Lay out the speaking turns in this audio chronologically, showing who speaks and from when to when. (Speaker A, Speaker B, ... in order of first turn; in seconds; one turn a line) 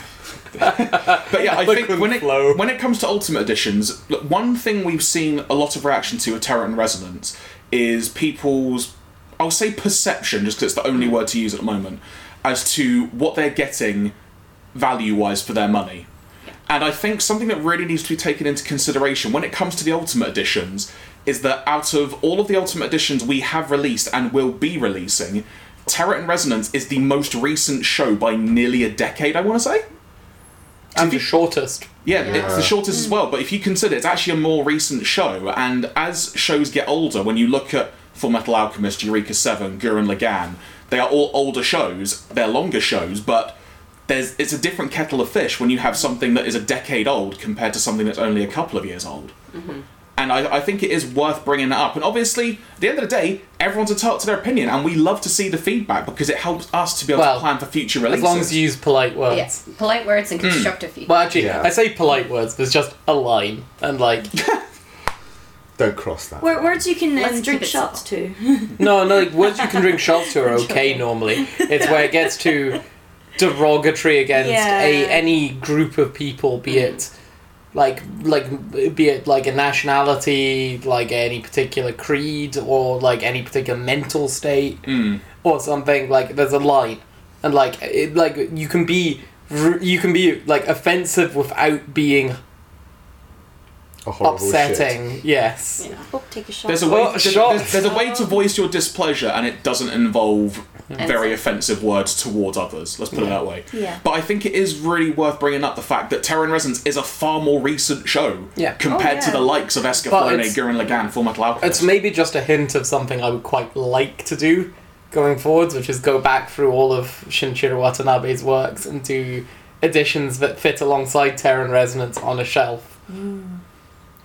Speaker A: 0.6-14.1
Speaker B: 0.7-2.6
Speaker A: 14.7-16.1
Speaker A: 16.7-29.8
Speaker A: 30.9-31.3
Speaker B: 30.9-31.9
Speaker A: 32.0-49.3
Speaker C: 32.2-32.7
Speaker D: 49.5-49.8
Speaker A: 50.2-58.6
Speaker B: 57.1-57.5
Speaker B: 58.0-59.6
Speaker D: 59.3-61.4
Speaker A: 60.4-60.7
Speaker B: 61.0-64.4
Speaker C: 61.3-61.8
Speaker A: 64.3-64.6
Speaker C: 65.8-66.6
Speaker E: 66.4-70.0
Speaker D: 67.2-68.0
Speaker B: 68.8-72.8
Speaker D: 70.7-71.0
Speaker E: 71.5-72.6
Speaker B: 73.4-77.1
Speaker E: 74.3-75.3
Speaker D: 76.7-76.9
Speaker B: 77.7-92.4
Speaker A: 84.8-85.2
Speaker C: 94.0-95.0
Speaker B: 94.2-95.8
Speaker D: 95.8-96.1
Speaker E: 96.1-98.3
Speaker A: 96.7-111.9
Speaker B: 96.8-97.8
Speaker D: 101.0-101.3
Speaker E: 103.7-104.0
Speaker E: 108.8-109.5
Speaker B: 110.0-110.7
Speaker B: 111.6-122.9
Speaker E: 123.1-123.5